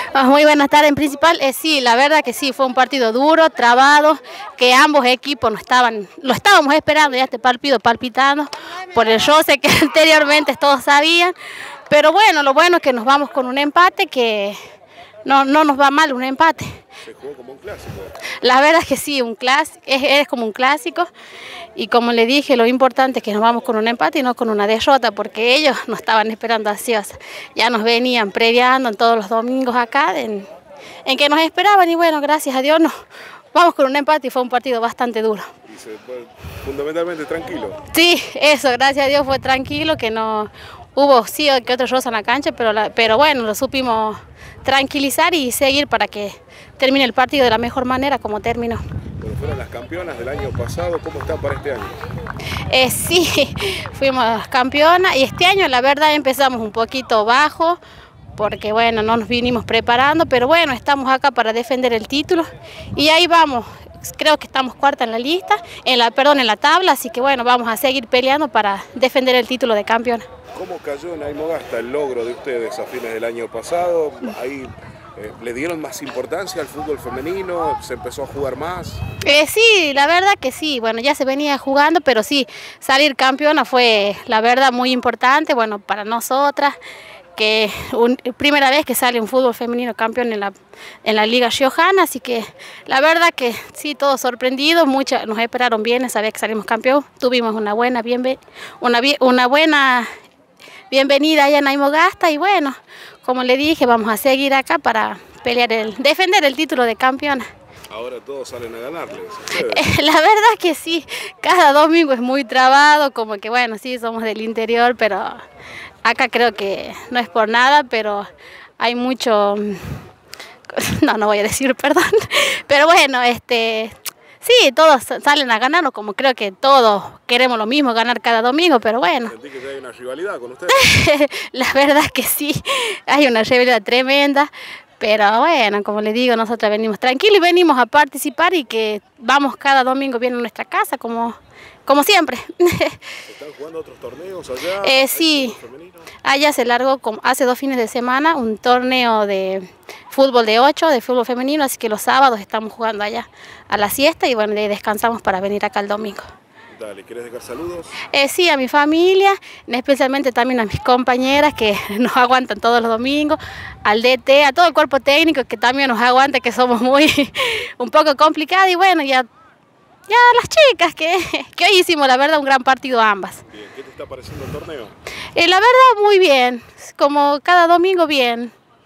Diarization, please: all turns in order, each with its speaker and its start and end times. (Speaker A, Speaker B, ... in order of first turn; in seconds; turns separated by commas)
Speaker A: 0.1-11.3, Speaker A: 11.9-14.6, Speaker A: 15.2-16.7, Speaker B: 17.0-18.2, Speaker A: 18.4-21.1, Speaker A: 21.8-30.5, Speaker A: 31.0-32.9, Speaker A: 33.5-35.5, Speaker B: 35.6-37.8, Speaker A: 37.9-48.8, Speaker B: 49.2-52.0, Speaker A: 52.7-57.8, Speaker A: 58.4-70.2, Speaker B: 70.5-79.0, Speaker A: 79.2-86.8, Speaker A: 87.3-100.1, Speaker A: 100.9-107.5, Speaker B: 107.9-109.9, Speaker A: 109.6-115.4, Speaker A: 116.0-120.0, Speaker A: 120.7-129.3, Speaker B: 129.2-130.9, Speaker A: 130.7-143.0, Speaker B: 143.3-146.1, Speaker A: 144.8-145.6, Speaker A: 146.2-156.3, Speaker B: 156.7-158.0, Speaker A: 158.1-169.3, Speaker A: 170.1-173.4, Speaker B: 173.5-174.9, Speaker A: 175.3-178.5